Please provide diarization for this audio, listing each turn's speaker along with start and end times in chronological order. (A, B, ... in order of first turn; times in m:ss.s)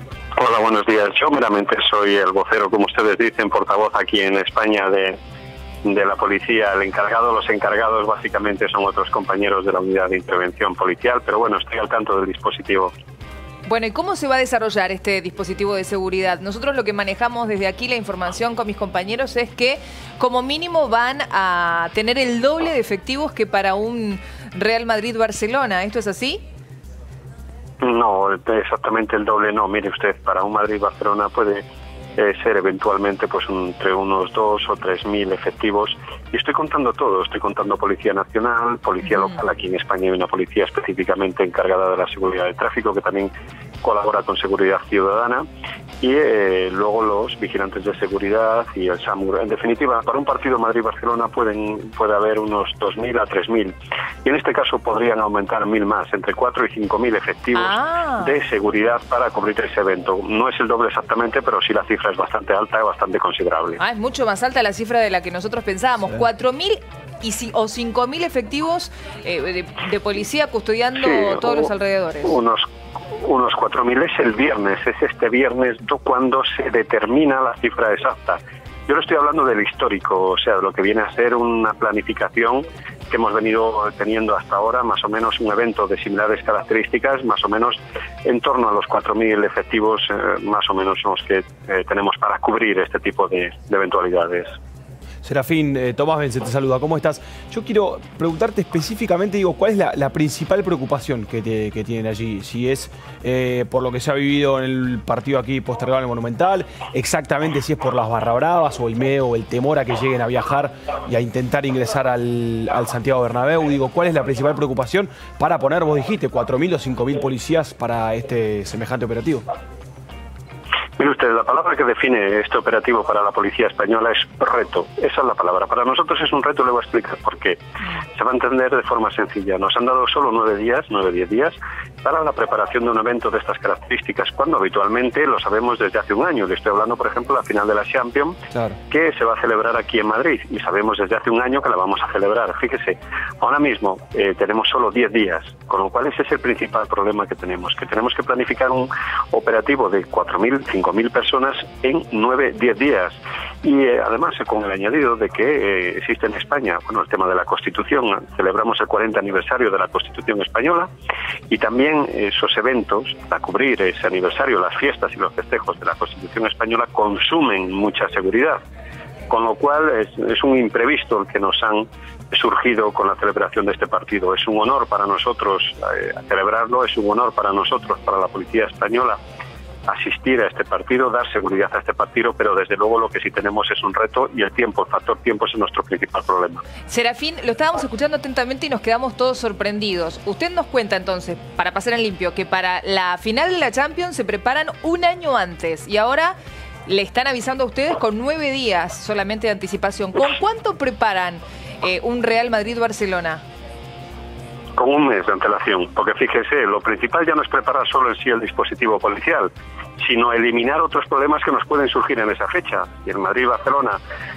0:00.4-0:05.2 A
0:05.8-0:12.9 A
0:13.6-0:26.4 B
0:27.8-0:31.6 A
0:32.2-0:43.3 A
0:43.8-0:45.4 A
0:46.0-0:53.7 A
0:54.2-1:03.8 A
0:57.5-0:58.3 B
1:03.8-1:12.3 B
1:11.0-1:11.7 A
1:12.2-1:12.6 A
1:13.2-1:34.5 A
1:35.2-1:59.4 C
2:01.0-2:07.6 A
2:08.2-2:18.4 A
2:18.9-2:40.9 A
2:41.5-2:48.6 A
2:49.3-2:59.2 A
2:59.9-3:06.6 A
3:06.9-3:16.4 B
3:16.9-3:23.4 B
3:24.8-3:34.0 A